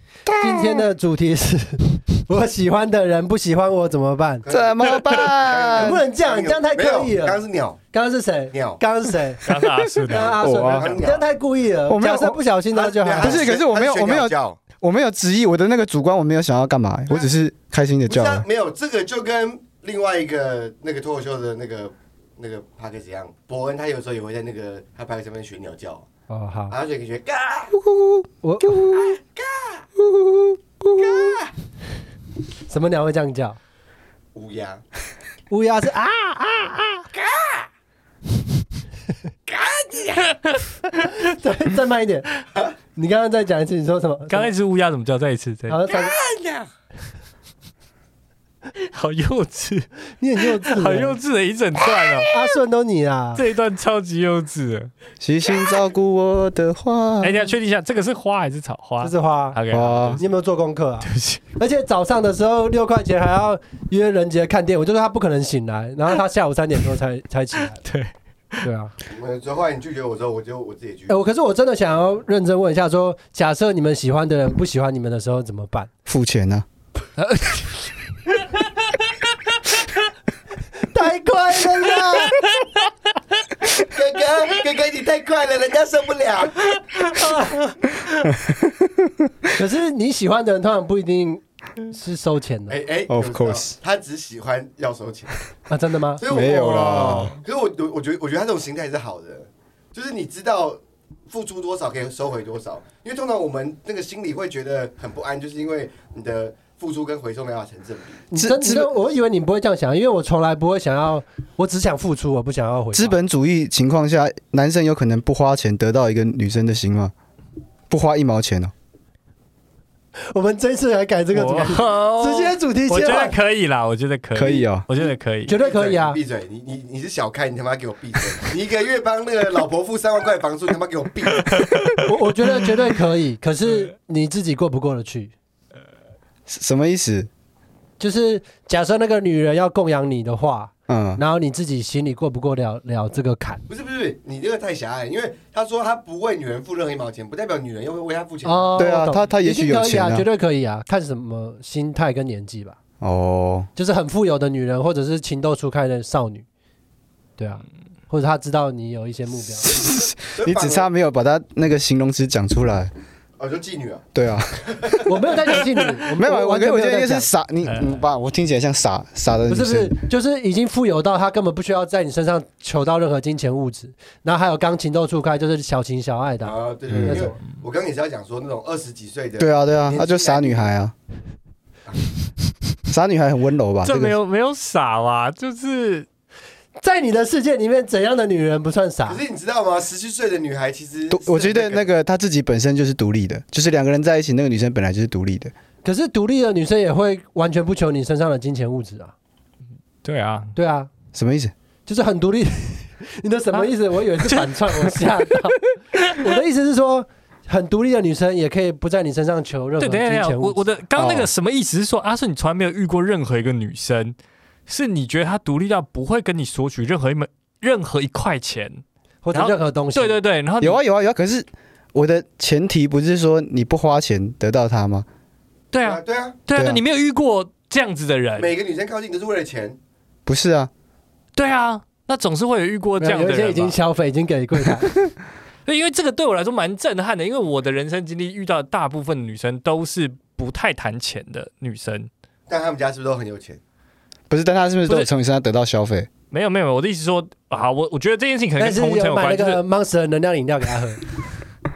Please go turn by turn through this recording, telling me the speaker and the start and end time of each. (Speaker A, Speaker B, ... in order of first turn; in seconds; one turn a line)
Speaker A: 0.3-0.8
Speaker B: 0.4-4.5
Speaker C: 4.4-7.8
Speaker A: 4.5-6.0
Speaker B: 5.8-9.4
Speaker C: 8.5-8.8
Speaker D: 9.4-10.4
Speaker A: 9.6-11.0
Speaker B: 10.1-13.5
Speaker C: 10.5-11.3
Speaker A: 11.9-12.4
Speaker C: 12.7-14.6
Speaker A: 13.1-18.5
Speaker C: 18.1-26.1
Speaker B: 26.3-26.8
Speaker C: 26.7-27.8
Speaker A: 27.7-29.2
Speaker B: 28.4-28.8
Speaker C: 28.9-29.9
Speaker A: 30.0-31.4
Speaker C: 30.9-31.5
Speaker B: 32.7-33.6
Speaker C: 34.3-34.8
Speaker B: 35.5-37.1
Speaker C: 37.1-37.7
Speaker C: 39.5-40.4
Speaker B: 41.0-42.3
Speaker B: 42.9-44.5
Speaker D: 44.3-45.8
Speaker B: 45.7-46.1
Speaker C: 45.9-46.7
Speaker D: 48.8-52.4
Speaker B: 50.2-51.2
Speaker B: 52.3-53.4
Speaker D: 53.4-54.9
Speaker A: 55.2-57.5
Speaker D: 57.2-60.2
Speaker B: 59.0-59.6
Speaker A: 59.7-60.2
Speaker B: 60.2-67.8
Speaker D: 61.0-61.4
Speaker D: 67.8-68.6
Speaker B: 68.6-68.9
Speaker C: 69.1-71.2
Speaker B: 71.1-75.9
Speaker A: 76.1-76.7
Speaker D: 77.2-77.9
Speaker B: 80.8-82.4
Speaker C: 83.8-86.8
Speaker D: 87.2-87.6
Speaker A: 88.3-89.1
Speaker B: 89.5-92.8
Speaker C: 92.7-95.5
Speaker A: 93.1-93.7
Speaker B: 95.7-96.2
Speaker C: 96.2-108.2
Speaker A: 96.3-97.4
Speaker B: 108.3-113.2
Speaker A: 108.3-108.9
Speaker A: 112.9-117.1
Speaker A: 117.9-118.7
Speaker B: 120.2-123.4
Speaker D: 121.3-125.6
Speaker A: 124.3-124.9
Speaker B: 125.5-126.2
Speaker C: 125.5-131.7
Speaker D: 131.5-132.1
Speaker B: 132.0-135.3
Speaker A: 136.5-137.3
Speaker B: 138.0-143.6
Speaker A: 140.9-141.2
Speaker C: 143.7-148.7
Speaker B: 148.4-152.8
Speaker A: 148.8-150.3
Speaker A: 153.0-153.7
Speaker B: 153.8-156.5
Speaker B: 157.4-159.8
Speaker A: 159.6-162.9
Speaker C: 160.3-160.9
Speaker C: 163.4-164.1
Speaker A: 164.2-165.1
Speaker C: 164.7-165.0
Speaker B: 165.1-167.3
Speaker A: 166.2-170.0
Speaker D: 167.6-168.0
Speaker B: 169.5-177.4
Speaker C: 176.4-180.7
Speaker A: 176.9-177.2
Speaker A: 179.4-180.9
Speaker A: 182.9-184.2
Speaker D: 183.8-186.1
Speaker B: 186.8-189.2
Speaker C: 189.1-191.9
Speaker A: 191.1-195.5
Speaker B: 195.8-199.1
Speaker D: 200.0-200.5
Speaker B: 200.6-200.9
Speaker A: 201.1-201.5
Speaker B: 201.9-205.6
Speaker D: 204.2-205.3
Speaker D: 205.9-206.4
Speaker B: 206.1-210.7
Speaker D: 209.8-214.2
Speaker A: 211.0-211.3
Speaker D: 214.7-220.8
Speaker B: 219.2-220.2
Speaker A: 220.6-225.1
Speaker D: 225.7-228.5
Speaker C: 225.8-226.4
Speaker A: 226.5-226.8
Speaker C: 228.4-229.8
Speaker A: 230.3-230.7
Speaker D: 231.4-233.8
Speaker B: 233.0-234.9
Speaker D: 235.7-242.1
Speaker C: 242.5-243.6
Speaker A: 244.3-246.1
Speaker D: 246.3-249.6
Speaker B: 248.6-251.0